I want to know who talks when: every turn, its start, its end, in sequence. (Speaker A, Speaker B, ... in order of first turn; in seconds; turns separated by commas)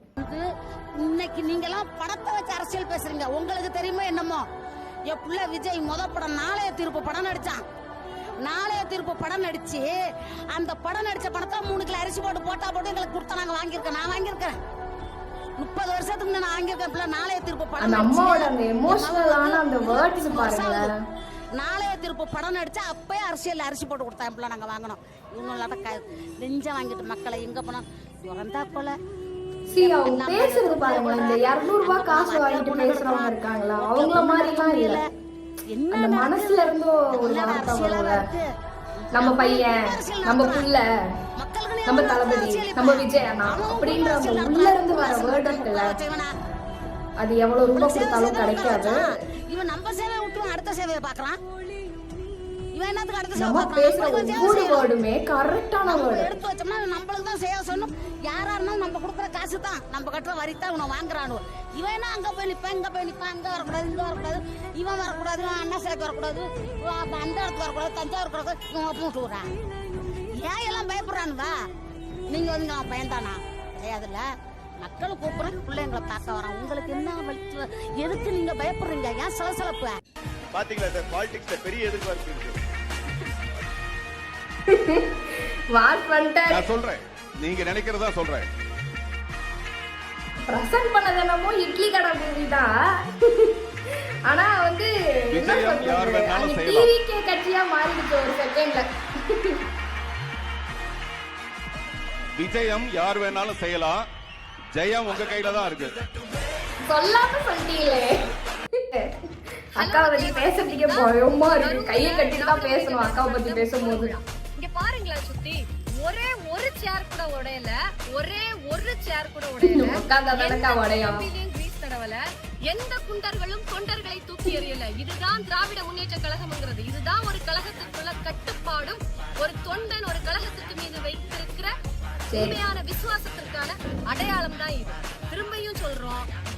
Speaker A: 0.2-4.5, Speaker A: 5.1-7.7, Speaker A: 8.4-14.6, Speaker A: 15.6-20.9, Speaker B: 17.8-20.9, Speaker A: 21.5-29.0, Speaker B: 29.7-35.0, Speaker A: 29.8-35.0, Speaker A: 35.7-38.5, Speaker B: 35.9-38.2, Speaker A: 39.2-40.7, Speaker B: 39.2-40.9, Speaker A: 41.4-46.4, Speaker B: 41.9-46.0, Speaker B: 47.2-49.0, Speaker A: 47.7-51.4, Speaker A: 52.7-54.9, Speaker B: 53.4-56.3, Speaker A: 55.9-69.5, Speaker A: 70.4-71.7, Speaker A: 72.3-80.0, Speaker C: 80.5-82.6, Speaker B: 84.7-86.7, Speaker C: 86.5-88.5, Speaker B: 90.5-93.6, Speaker B: 94.3-99.6, Speaker C: 95.3-96.9, Speaker C: 102.4-104.0, Speaker C: 104.7-106.0, Speaker B: 106.9-108.1, Speaker B: 109.8-114.1, Speaker D: 109.8-131.7, Speaker B: 119.6-121.2, Speaker B: 132.3-132.6, Speaker D: 132.3-136.3